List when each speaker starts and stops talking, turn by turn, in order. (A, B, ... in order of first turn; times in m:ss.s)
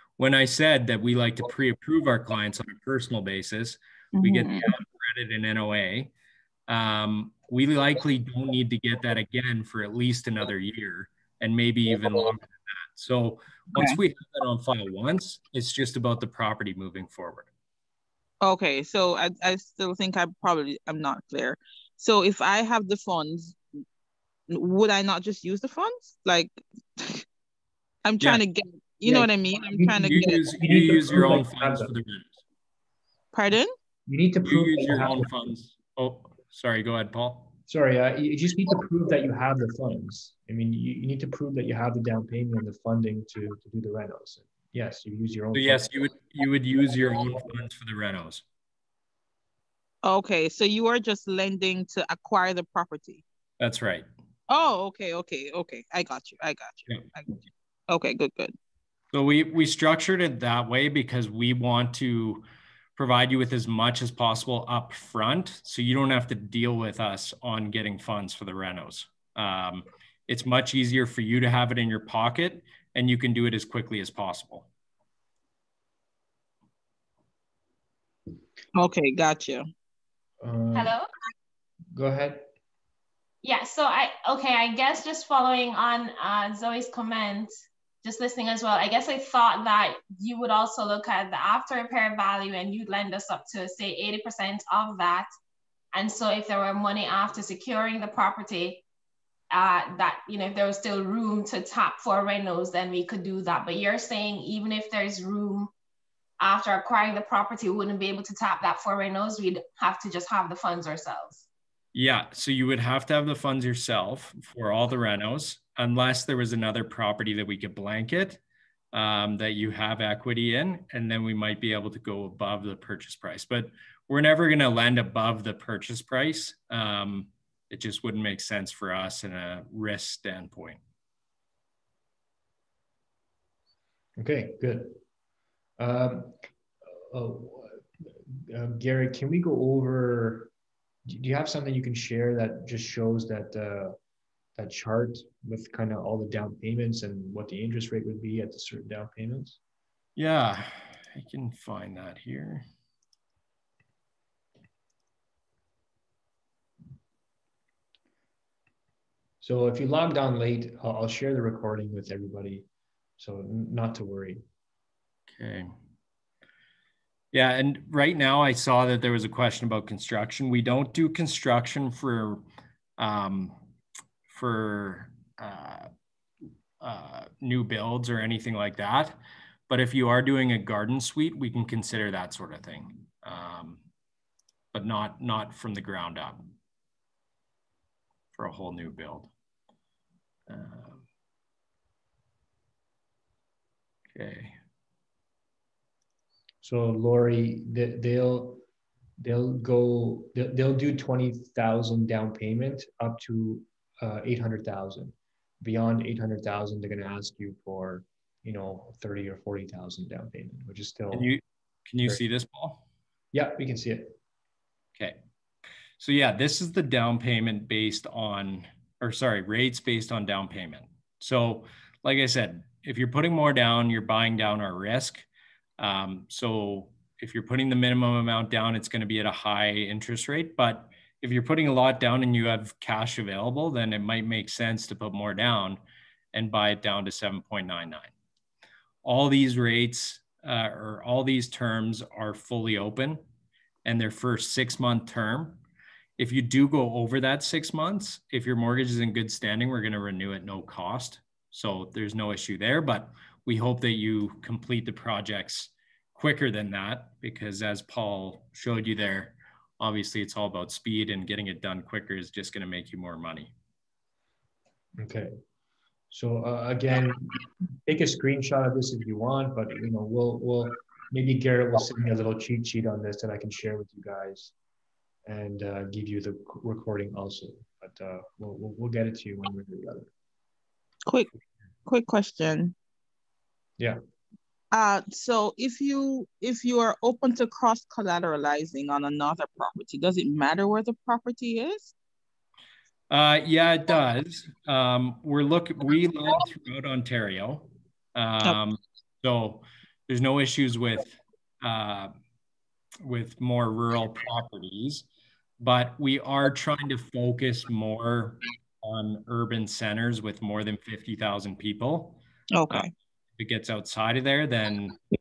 0:00.2-0:06.1 A
0:04.2-0:04.7 B
0:06.7-0:17.5 A
0:18.4-0:23.6 B
0:24.5-0:27.2 B
0:28.0-0:30.4 B
0:29.0-0:31.9 C
0:30.0-0:32.4 A
0:33.3-0:33.7 B
0:34.1-0:35.3 C
0:34.4-0:37.5 A
0:37.7-0:46.2 C
0:45.5-0:48.4 A
0:50.0-0:53.2 B
0:53.6-0:54.0 A
0:54.5-0:58.5 B
0:59.1-1:02.4 A
1:03.0-1:14.7 A
1:18.7-1:19.7 B
1:20.4-1:21.0 C
1:20.7-1:21.1 D
1:21.9-1:22.4 C
1:23.4-1:35.3 D
1:35.9-1:38.8 D
1:39.5-1:45.7 D
1:46.4-1:51.4 D
1:51.9-1:58.4 A
1:58.9-2:10.8 A
2:14.2-2:15.0 C
2:15.8-2:16.4 C
2:16.9-2:20.5 C
2:21.0-2:24.0 C
2:24.6-2:29.6 C
2:30.2-2:32.6 A
2:39.4-2:42.7 C
2:43.2-2:44.4 C
2:45.3-2:45.7 A
2:47.3-2:52.4 A
2:53.0-2:53.6 A
2:54.3-2:55.9 A
2:56.8-2:59.2 A
2:59.7-3:03.8 A
3:04.7-3:06.5 A
3:08.3-3:09.3 A
3:10.5-3:11.0 A
3:14.1-3:14.5 A
3:16.6-3:18.6 C
3:19.2-3:31.3 C
3:31.1-3:32.8 A
3:33.3-3:34.1 C
3:36.0-3:45.2 A
3:45.8-3:55.8 A
3:56.3-3:58.1 A
3:59.0-4:03.2 A
4:03.8-4:05.6 A
4:06.2-4:23.5 A
4:25.0-4:25.3 C
4:26.1-4:34.5 C
4:35.2-4:40.1 C
4:41.8-4:42.7 B
4:44.7-4:51.9 B
4:53.1-5:02.1 A
5:03.0-5:05.0 A
5:05.6-5:15.0 A
5:12.5-5:12.9 B